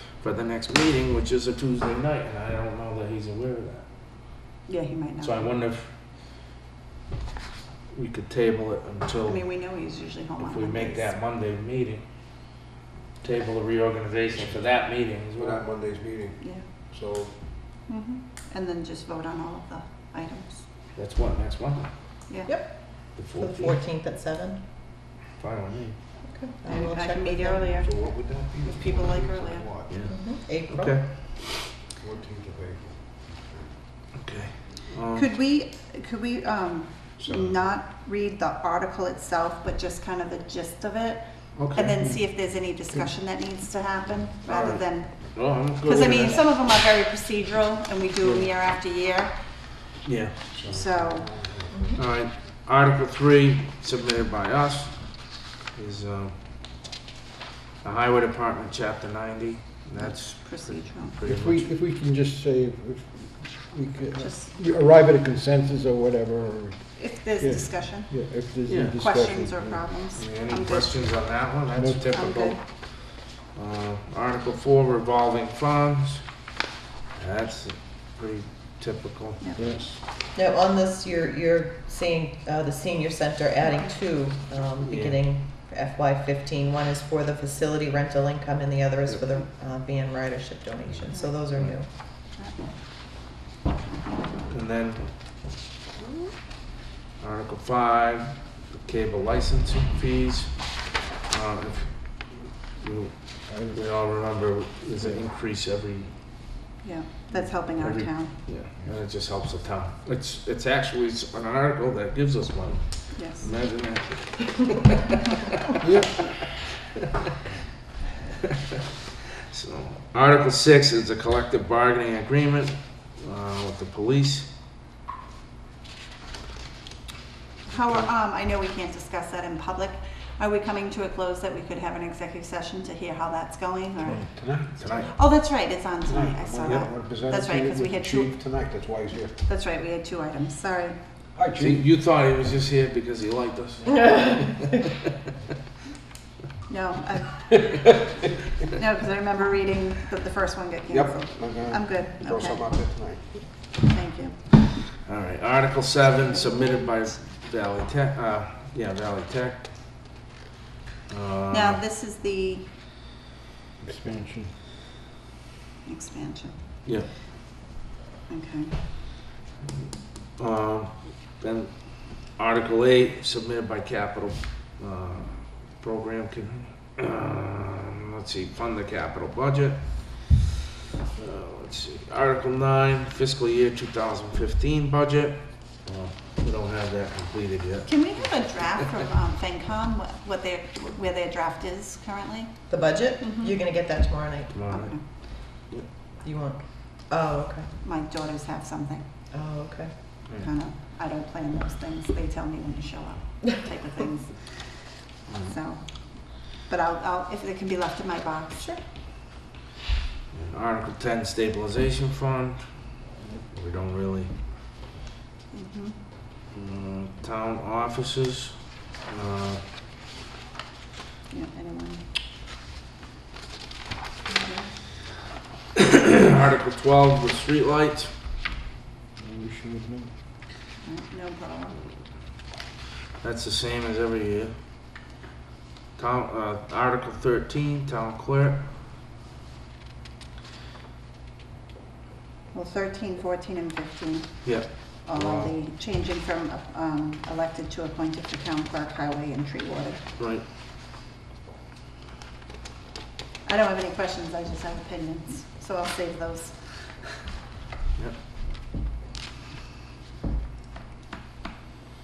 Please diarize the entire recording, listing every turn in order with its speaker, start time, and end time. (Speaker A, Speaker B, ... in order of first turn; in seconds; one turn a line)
Speaker A: 0.2-3.9
Speaker B: 4.7-5.5
Speaker A: 5.2-5.9
Speaker A: 7.9-9.4
Speaker B: 9.2-11.1
Speaker A: 10.4-12.0
Speaker A: 13.2-15.6
Speaker C: 15.4-17.3
Speaker B: 16.4-16.6
Speaker B: 17.9-20.6
Speaker A: 20.9-21.9
Speaker D: 22.4-24.6
Speaker A: 23.1-23.8
Speaker A: 25.4-25.9
Speaker D: 26.3-27.7
Speaker B: 26.6-27.9
Speaker C: 27.7-29.9
Speaker B: 28.6-29.7
Speaker A: 29.9-31.1
Speaker D: 30.0-31.0
Speaker C: 32.0-33.7
Speaker A: 34.1-35.3
Speaker B: 35.1-49.3
Speaker C: 37.2-37.6
Speaker A: 41.6-41.9
Speaker A: 44.5-46.4
Speaker E: 48.2-48.5
Speaker A: 50.0-50.4
Speaker C: 50.5-52.0
Speaker B: 50.6-51.3
Speaker D: 51.7-52.0
Speaker A: 52.0-56.4
Speaker A: 57.8-61.7
Speaker B: 60.0-61.2
Speaker E: 61.2-69.9
Speaker B: 64.2-64.5
Speaker B: 67.0-68.1
Speaker A: 68.7-69.0
Speaker B: 69.0-71.0
Speaker A: 70.2-76.3
Speaker E: 71.7-72.0
Speaker B: 72.1-72.6
Speaker A: 77.1-79.4
Speaker B: 79.4-79.7
Speaker E: 79.5-79.9
Speaker D: 80.3-91.9
Speaker A: 84.8-85.2
Speaker A: 94.5-95.1
Speaker A: 97.2-102.2
Speaker A: 102.8-106.1
Speaker E: 103.5-103.8
Speaker B: 106.8-108.3
Speaker A: 107.8-115.3
Speaker B: 113.1-113.5
Speaker E: 115.8-116.3
Speaker A: 119.5-124.5
Speaker B: 127.7-134.3
Speaker C: 134.3-135.0
Speaker A: 134.8-135.1
Speaker B: 135.0-138.4
Speaker C: 136.1-139.5
Speaker B: 139.4-141.0
Speaker C: 141.3-141.8
Speaker A: 141.6-144.9
Speaker B: 146.7-147.9
Speaker B: 148.7-152.7
Speaker C: 150.9-153.4
Speaker B: 153.8-154.4
Speaker A: 155.0-159.7
Speaker B: 156.2-157.1
Speaker A: 161.1-161.8
Speaker B: 161.5-162.7
Speaker E: 163.8-164.5
Speaker B: 165.8-166.6
Speaker B: 168.3-168.8
Speaker A: 170.3-180.4
Speaker A: 181.2-187.9
Speaker B: 187.9-192.5
Speaker D: 192.7-194.6
Speaker B: 193.2-193.6
Speaker A: 194.5-195.9
Speaker B: 194.7-195.0
Speaker D: 196.2-197.7
Speaker B: 197.8-199.1
Speaker D: 199.3-199.9
Speaker B: 200.3-204.9
Speaker A: 205.3-205.5
Speaker B: 205.4-208.7
Speaker A: 210.3-212.6
Speaker A: 213.5-214.3
Speaker B: 215.5-216.0
Speaker A: 216.5-219.6
Speaker B: 221.3-222.0
Speaker B: 224.3-224.7
Speaker A: 225.9-228.1
Speaker E: 229.2-230.1
Speaker B: 230.8-231.8
Speaker A: 233.2-234.5
Speaker A: 235.9-238.6
Speaker B: 242.5-250.0
Speaker A: 244.4-245.5
Speaker A: 250.2-250.4
Speaker B: 253.4-257.1